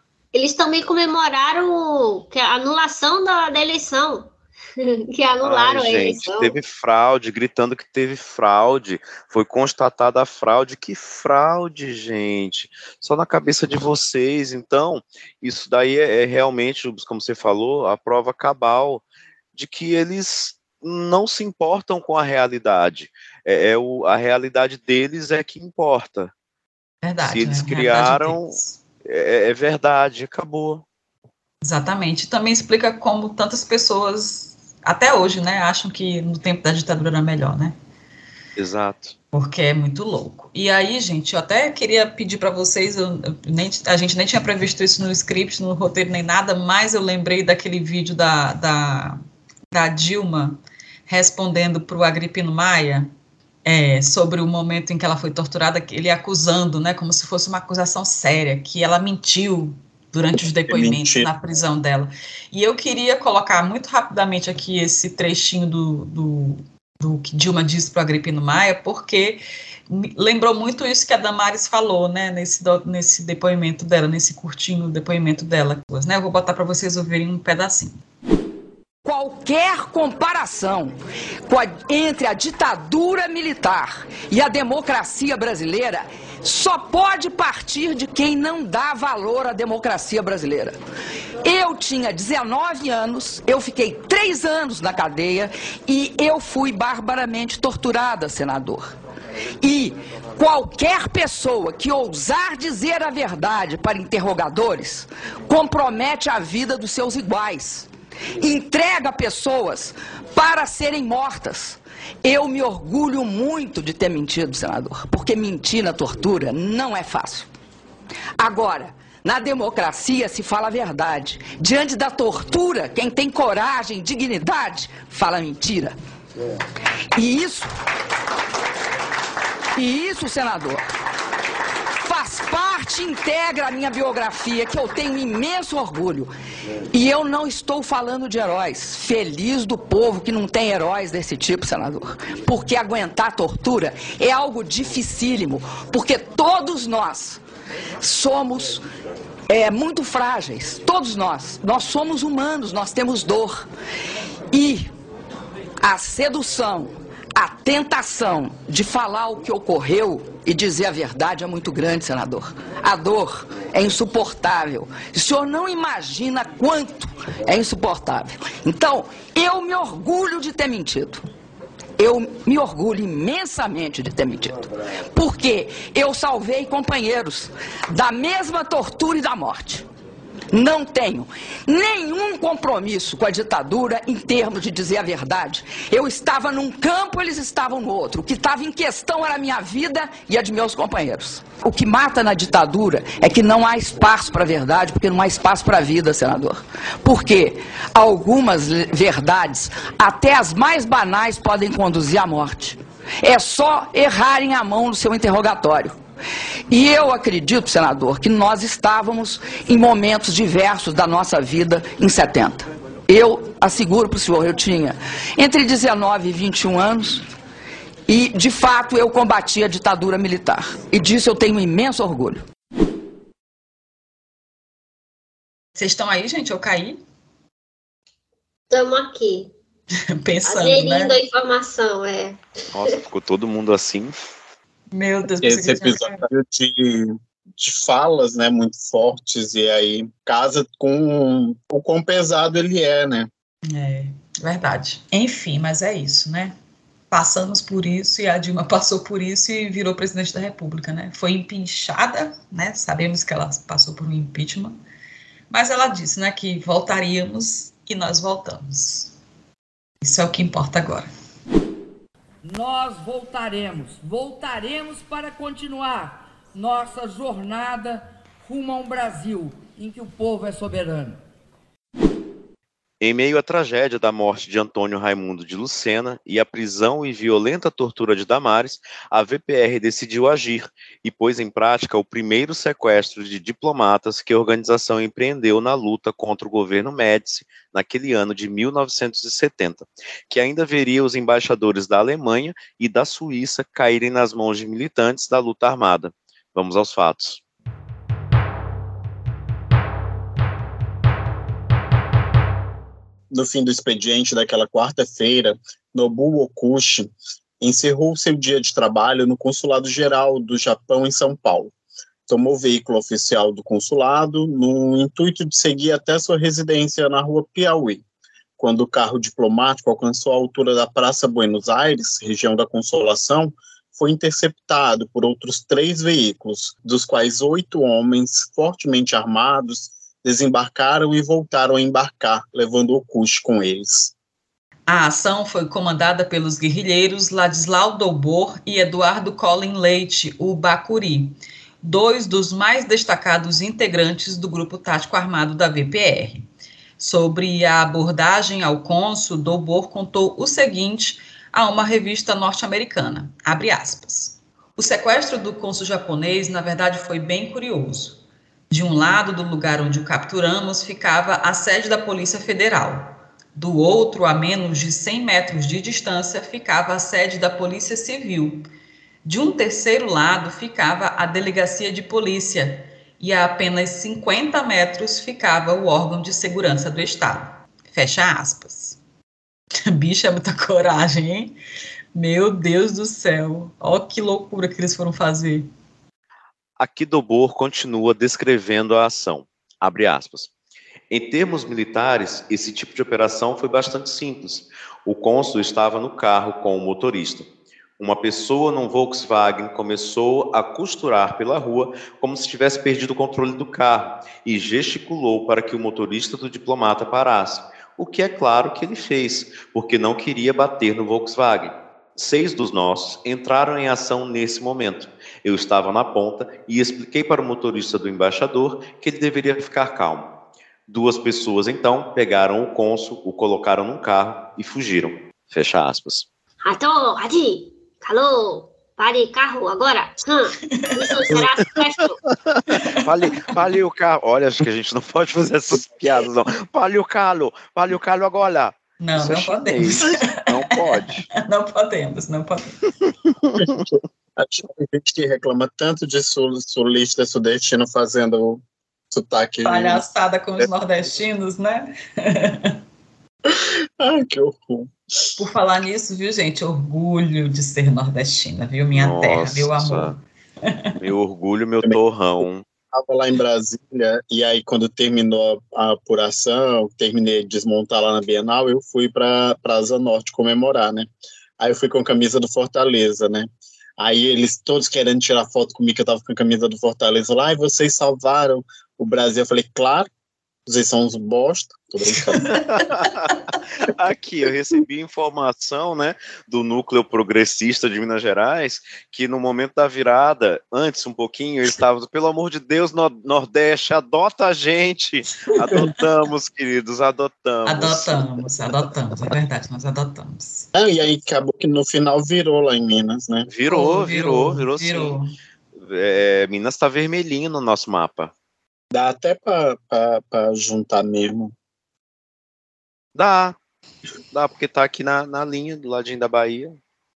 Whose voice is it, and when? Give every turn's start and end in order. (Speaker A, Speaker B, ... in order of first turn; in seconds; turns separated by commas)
Speaker A: 0.3-6.5, Speaker B: 5.4-19.0, Speaker B: 19.6-26.3, Speaker C: 27.0-28.8, Speaker B: 27.2-30.9, Speaker C: 31.6-37.8, Speaker B: 38.6-39.2, Speaker C: 39.3-49.2, Speaker C: 49.7-53.1, Speaker C: 53.6-77.9, Speaker D: 60.7-61.3, Speaker E: 79.0-81.0, Speaker E: 81.5-90.8, Speaker E: 91.4-98.9, Speaker E: 99.6-117.5, Speaker E: 118.4-126.0, Speaker E: 127.2-127.7, Speaker E: 129.8-130.8, Speaker E: 132.0-136.3, Speaker E: 136.9-147.4, Speaker E: 148.0-148.8, Speaker E: 149.5-153.7, Speaker E: 154.5-154.9, Speaker E: 155.8-171.2, Speaker E: 172.0-179.8, Speaker E: 180.5-206.0, Speaker E: 206.7-217.3, Speaker E: 218.1-222.4, Speaker C: 225.8-227.0, Speaker A: 228.7-229.5, Speaker C: 230.2-231.2, Speaker A: 230.4-232.4, Speaker B: 232.7-234.3, Speaker C: 234.9-236.3, Speaker D: 235.4-243.3, Speaker C: 243.7-246.6, Speaker C: 247.1-254.8, Speaker C: 255.5-259.1, Speaker C: 260.0-261.1, Speaker F: 262.4-271.2, Speaker B: 273.0-297.4, Speaker D: 303.3-311.7, Speaker D: 312.3-318.0, Speaker D: 318.6-334.1, Speaker C: 334.9-346.4, Speaker C: 347.0-358.2, Speaker C: 358.7-368.7, Speaker C: 369.2-379.0, Speaker C: 379.9-381.6, Speaker C: 382.1-385.7, Speaker B: 386.8-390.5, Speaker B: 391.1-397.5, Speaker B: 398.0-420.3, Speaker B: 420.9-426.3, Speaker A: 426.6-432.2, Speaker C: 430.7-431.2, Speaker C: 432.7-433.1, Speaker B: 432.9-441.3, Speaker D: 435.8-436.0, Speaker C: 439.0-442.8, Speaker B: 443.4-443.9, Speaker D: 443.6-450.0, Speaker C: 449.6-452.8, Speaker D: 453.5-454.9, Speaker C: 455.4-461.0, Speaker B: 458.9-460.2, Speaker B: 461.0-462.6, Speaker D: 461.8-480.1, Speaker D: 480.7-482.4, Speaker C: 482.4-483.1, Speaker B: 482.5-498.3, Speaker C: 495.7-496.0, Speaker C: 497.7-500.7, Speaker D: 500.8-503.5, Speaker B: 503.5-505.2, Speaker C: 503.7-505.3, Speaker B: 505.8-508.3, Speaker D: 508.9-511.5, Speaker B: 513.2-513.6, Speaker B: 514.3-516.8